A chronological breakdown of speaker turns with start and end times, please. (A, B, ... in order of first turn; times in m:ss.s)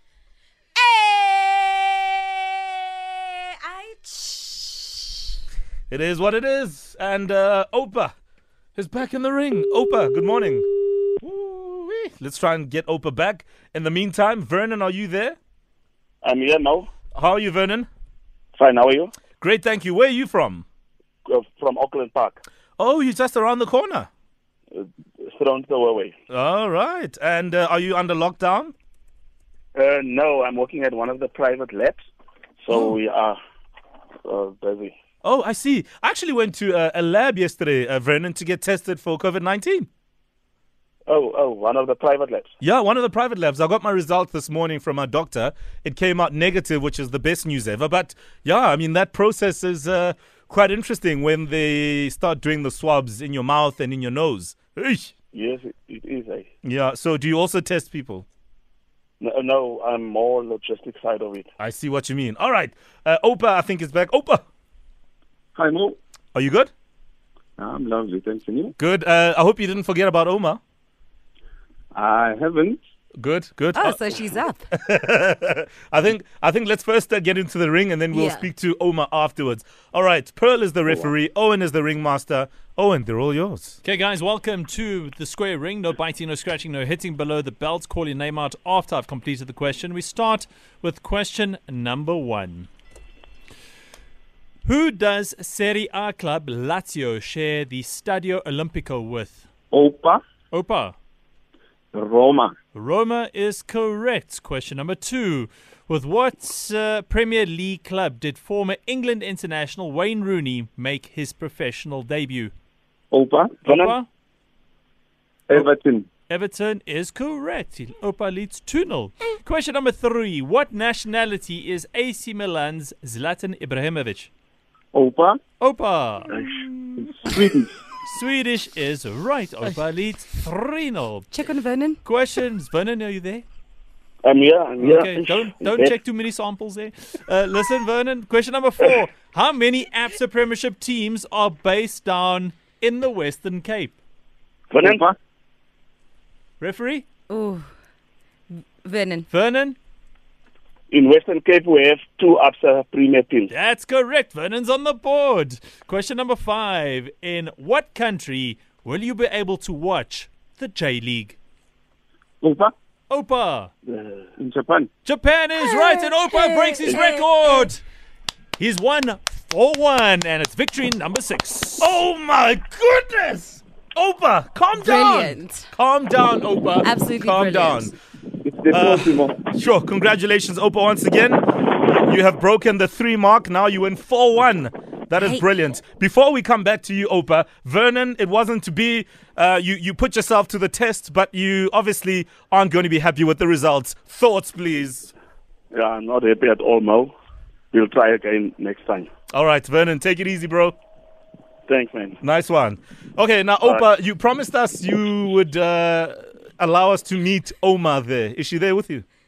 0:00.8-0:05.3 A
0:05.9-0:08.1 B
0:08.8-0:15.4 B
0:16.2-0:16.9 C
0:17.1-0:17.9 B
0:18.5-0:19.1 C
0:19.4-0:20.6 B
0:21.2-0:22.4 C
0:22.8-0:24.1 B
0:24.7-0:26.1 C
0:26.3-0:28.7 B
0:29.7-0:32.0 C
0:32.6-0:33.4 C
0:34.2-0:35.0 C
0:35.2-0:39.9 B
0:41.1-0:42.5 C
0:42.6-0:55.1 B
0:55.3-0:56.5 C
0:56.6-0:58.2 B
0:59.2-1:01.5 C
1:01.6-1:04.4 B
1:05.6-1:06.0 D
1:06.3-1:06.7 B
1:07.6-1:08.7 D
1:08.8-1:10.6 B
1:11.9-1:12.8 D
1:13.2-1:14.0 B
1:13.7-1:14.6 A
1:14.7-1:23.8 B
1:18.1-1:18.5 A
1:23.8-1:32.7 E
1:34.6-1:39.5 E
1:39.7-1:40.2 D
1:40.5-1:40.9 E
1:41.9-1:42.5 D
1:42.7-1:52.5 E
1:53.1-1:53.6 D
1:53.6-1:54.1 E
1:55.5-1:56.1 D
1:56.3-2:04.3 E
2:04.9-2:05.4 D
2:05.6-2:07.1 E
2:06.4-2:06.6 C
2:07.1-2:07.7 D
2:08.0-2:11.4 E
2:11.3-2:12.0 A
2:12.0-2:13.4 E
2:14.2-2:16.0 C
2:14.8-2:24.0 E
2:24.7-2:25.1 C
2:24.8-2:25.1 D
2:26.6-2:27.0 E
2:27.3-2:27.7 A
2:28.5-2:29.2 A
2:29.3-2:29.8 E
2:30.9-2:33.5 C
2:33.5-2:41.4 E
2:42.4-2:42.7 D
2:43.1-2:43.7 E
2:44.0-2:44.2 C
2:44.4-2:44.9 D
2:45.0-2:47.8 E
2:45.6-2:47.7 A
2:48.6-2:52.0 E
2:51.8-2:57.9 B
2:54.8-2:55.7 A
2:56.8-2:57.9 A
2:58.4-2:59.4 D
2:58.7-3:15.1 B
3:05.2-3:05.5 A
3:15.7-3:17.1 C
3:17.7-3:19.1 C
3:19.3-3:20.8 B
3:21.7-3:22.2 C
3:22.2-3:29.0 B